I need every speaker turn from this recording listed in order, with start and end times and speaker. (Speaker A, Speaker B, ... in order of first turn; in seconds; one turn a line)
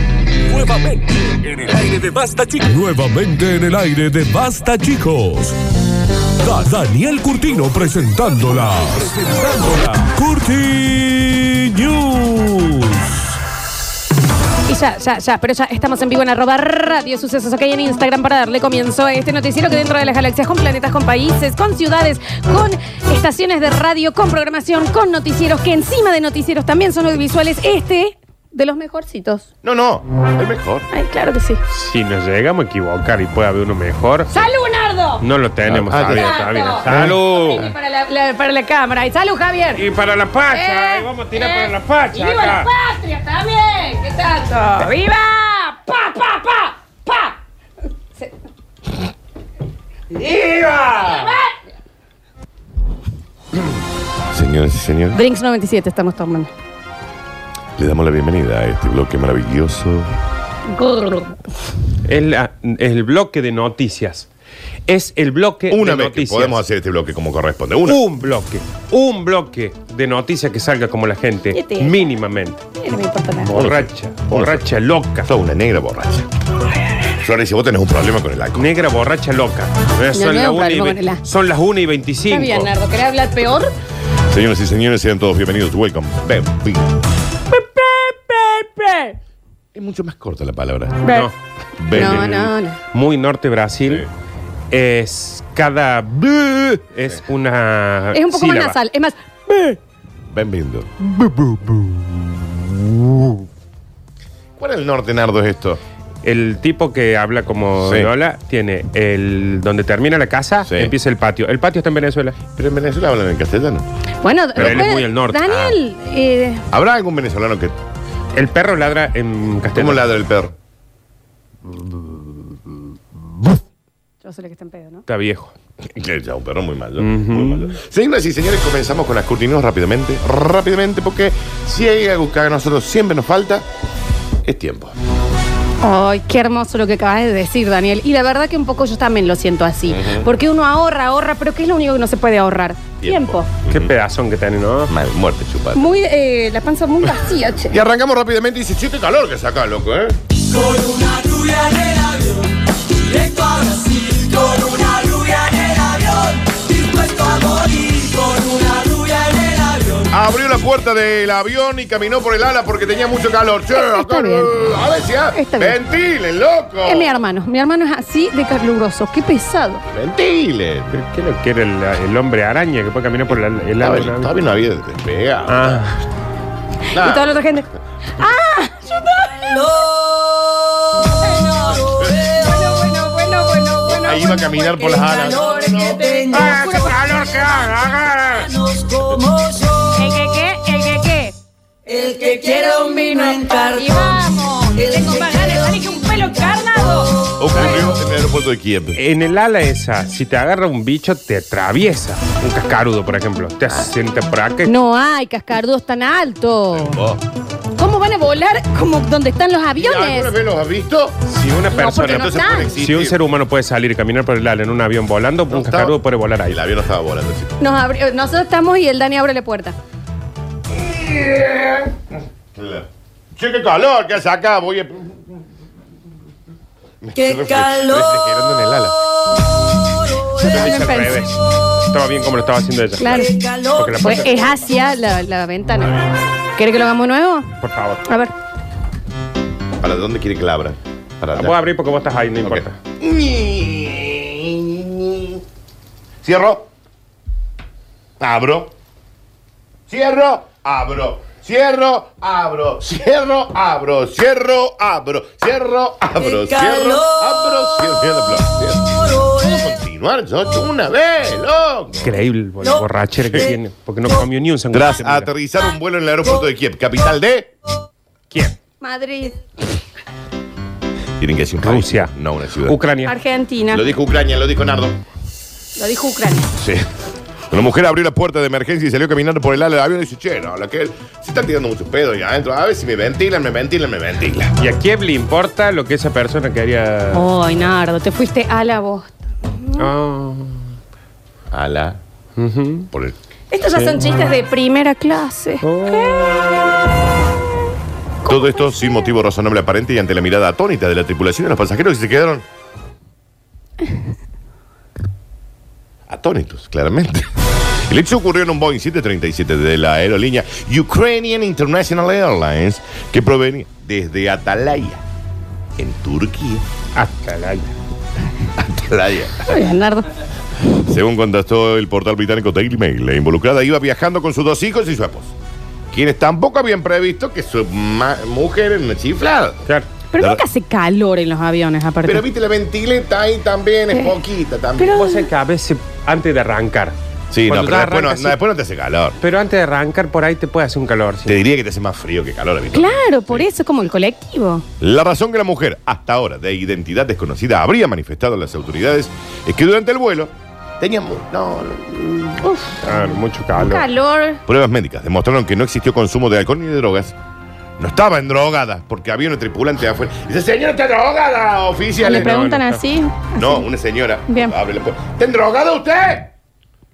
Speaker A: 0.4-5.5
Speaker A: 6.4-13.3
Speaker B: 14.7-29.4
Speaker C: 29.6-30.9
Speaker B: 30.9-31.6
Speaker D: 31.7-34.5
Speaker B: 34.3-35.2
Speaker D: 35.2-37.6
Speaker C: 35.6-37.7
Speaker B: 36.0-39.8
Speaker D: 39.8-42.7
Speaker B: 40.5-47.4
Speaker D: 50.1-51.3
Speaker B: 51.0-51.5
Speaker C: 54.3-55.2
Speaker B: 55.1-56.5
Speaker C: 57.8-60.1
Speaker B: 60.7-61.4
Speaker D: 62.0-64.3
Speaker D: 64.9-66.6
Speaker C: 65.7-68.0
Speaker D: 67.8-72.6
Speaker B: 71.5-72.1
Speaker B: 72.8-73.5
Speaker D: 73.4-75.3
Speaker C: 73.5-74.6
Speaker C: 75.2-76.3
Speaker C: 77.1-78.7
Speaker D: 78.6-82.7
Speaker B: 80.1-81.2
Speaker B: 82.3-83.7
Speaker C: 84.3-87.0
Speaker B: 87.5-89.2
Speaker C: 89.7-91.0
Speaker B: 91.0-91.3
Speaker D: 91.0-91.3
Speaker C: 91.8-92.5
Speaker B: 91.9-92.8
Speaker D: 91.9-94.1
Speaker D: 94.7-98.8
Speaker B: 98.1-99.8
Speaker C: 100.3-103.4
Speaker C: 104.6-105.8
Speaker D: 106.2-112.4
Speaker C: 107.8-108.1
Speaker C: 110.7-110.9
Speaker C: 112.5-113.8
Speaker B: 114.2-116.6
Speaker D: 114.6-115.5
Speaker C: 114.6-115.8
Speaker C: 116.7-117.8
Speaker D: 118.3-120.1
Speaker C: 119.7-120.5
Speaker B: 124.2-125.0
Speaker D: 125.1-125.5
Speaker C: 125.9-133.7
Speaker D: 127.0-127.7
Speaker C: 134.4-134.9
Speaker B: 135.8-143.5
Speaker C: 139.9-140.3
Speaker C: 143.0-143.9
Speaker D: 143.7-144.9
Speaker C: 144.9-145.9
Speaker B: 145.7-147.8
Speaker C: 147.7-150.2
Speaker E: 150.8-152.2
Speaker E: 153.5-154.6
Speaker B: 154.6-155.2
Speaker E: 157.7-159.6
Speaker C: 160.1-167.1
Speaker B: 163.7-164.5
Speaker B: 165.3-165.8
Speaker B: 166.8-169.8
Speaker C: 169.9-170.9
Speaker D: 170.9-174.3
Speaker C: 173.3-176.0
Speaker D: 175.5-175.9
Speaker C: 176.9-177.4
Speaker B: 176.9-180.0
Speaker B: 180.9-187.1
Speaker C: 181.9-182.2
Speaker C: 183.8-186.2
Speaker D: 186.3-188.6
Speaker E: 189.2-189.5
Speaker B: 189.9-191.3
Speaker B: 191.8-197.8
Speaker C: 197.4-198.9
Speaker D: 198.9-204.7
Speaker C: 203.7-203.9
Speaker B: 204.7-207.0
Speaker C: 206.7-207.2
Speaker B: 207.8-210.3
Speaker C: 209.8-211.2
Speaker D: 211.2-216.6
Speaker B: 211.7-212.7
Speaker C: 212.0-213.2
Speaker C: 215.5-217.6
Speaker B: 217.6-219.8
Speaker C: 220.7-222.0
Speaker C: 222.5-225.3
Speaker C: 227.0-229.0
Speaker B: 230.3-231.2
Speaker D: 230.3-231.3
Speaker D: 231.8-234.5
Speaker B: 233.0-236.0
Speaker C: 235.8-236.2
Speaker B: 236.6-237.5
Speaker D: 237.6-238.0
Speaker B: 238.1-238.3
Speaker C: 239.8-241.6
Speaker D: 241.3-242.8
Speaker C: 242.4-245.4
Speaker C: 246.2-246.7
Speaker C: 248.2-248.7
Speaker C: 249.9-262.1
Speaker D: 261.9-265.3
Speaker C: 263.2-263.6
Speaker C: 264.7-267.5
Speaker D: 268.3-268.6
Speaker B: 268.8-269.4
Speaker C: 271.2-272.8
Speaker D: 271.6-273.1
Speaker B: 273.1-273.9
Speaker C: 273.7-275.0
Speaker B: 275.8-276.5
Speaker C: 276.6-276.9
Speaker C: 277.5-284.5
Speaker D: 284.6-287.2
Speaker B: 287.1-289.9
Speaker D: 289.8-290.6
Speaker C: 291.5-292.0
Speaker D: 292.4-292.9
Speaker B: 293.5-296.4
Speaker D: 295.6-296.7
Speaker B: 298.2-299.0
Speaker C: 298.2-302.4
Speaker C: 306.1-307.3
Speaker C: 307.9-315.0
Speaker C: 315.8-316.6
Speaker D: 316.9-317.7
Speaker C: 318.6-319.7
Speaker B: 319.5-320.1
Speaker C: 320.7-325.3
Speaker C: 325.9-329.6
Speaker B: 330.1-332.2
Speaker C: 330.2-330.4
Speaker C: 332.0-335.0
Speaker B: 334.8-335.3
Speaker D: 334.9-338.4
Speaker C: 337.3-339.2
Speaker D: 339.2-341.4
Speaker C: 341.2-343.4
Speaker B: 342.7-344.6
Speaker C: 344.8-352.5
Speaker B: 352.4-352.8
Speaker D: 352.8-353.8
Speaker B: 353.5-354.4
Speaker C: 354.4-357.1
Speaker C: 357.8-362.3
Speaker B: 362.0-363.7
Speaker D: 362.1-362.8
Speaker C: 363.4-366.3
Speaker B: 364.3-364.5